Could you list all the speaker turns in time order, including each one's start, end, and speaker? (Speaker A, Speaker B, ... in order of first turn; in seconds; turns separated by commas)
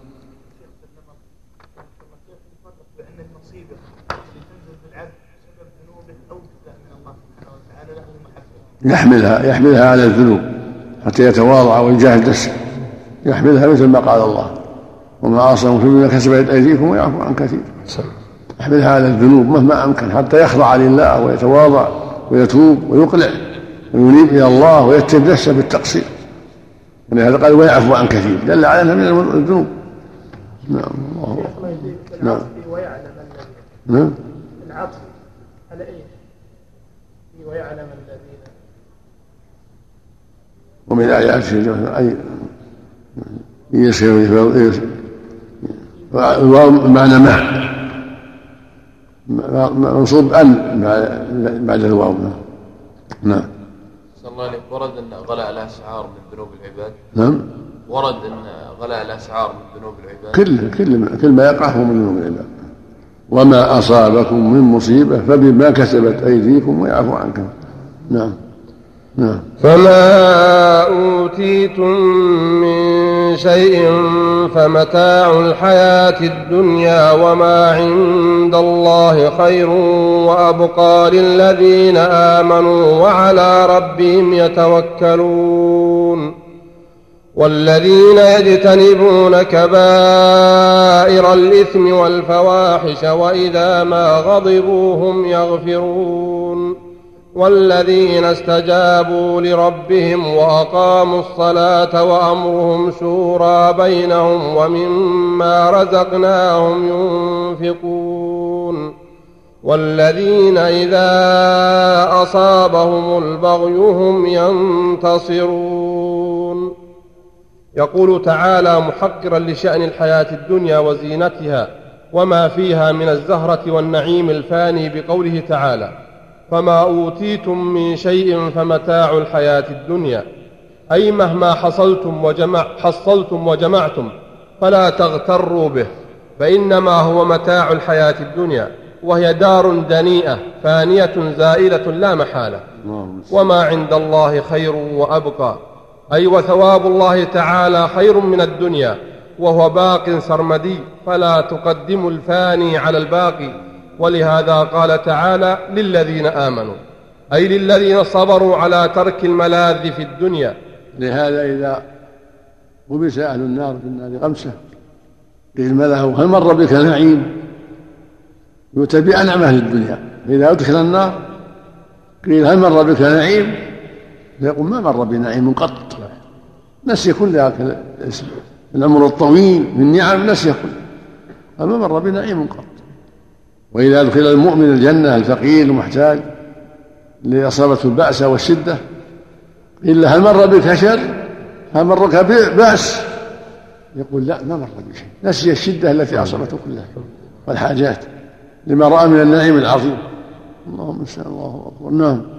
Speaker A: 0.6-8.7, Speaker B: 8.8-10.5, Speaker B: 11.0-12.6, Speaker B: 13.2-14.6, Speaker B: 15.2-17.9, Speaker B: 18.6-26.1, Speaker B: 27.1-29.7, Speaker B: 30.7-31.5, Speaker A: 31.3-33.7, Speaker B: 32.2-32.5, Speaker B: 33.9-34.2, Speaker A: 34.6-35.1, Speaker A: 35.7-36.1, Speaker A: 37.3-38.5, Speaker B: 40.9-42.5, Speaker B: 43.2-45.0, Speaker B: 45.6-47.9, Speaker B: 49.3-52.4, Speaker B: 53.2-53.5, Speaker C: 54.2-57.0, Speaker B: 57.1-57.5, Speaker C: 57.9-60.4, Speaker B: 60.3-62.5, Speaker B: 63.3-67.5, Speaker B: 68.1-68.4, Speaker B: 69.2-69.5, Speaker D: 69.6-86.3, Speaker D: 87.3-96.8, Speaker D: 97.3-108.9, Speaker D: 109.6-116.7, Speaker D: 117.8-125.9, Speaker D: 126.5-130.2, Speaker D: 130.9-142.6, Speaker B: 142.8-143.4, Speaker D: 143.3-145.6, Speaker D: 146.1-156.8, Speaker D: 157.3-160.6, Speaker B: 160.9-161.8, Speaker B: 162.9-164.6, Speaker B: 165.5-167.4, Speaker B: 168.7-171.2, Speaker B: 172.2-173.6, Speaker B: 174.4-176.0, Speaker B: 176.8-180.8, Speaker B: 181.6-182.8, Speaker B: 183.7-186.2, Speaker B: 187.2-188.8, Speaker B: 189.8-191.2, Speaker B: 191.7-193.1, Speaker B: 193.9-198.1, Speaker B: 198.7-200.1, Speaker B: 200.7-202.2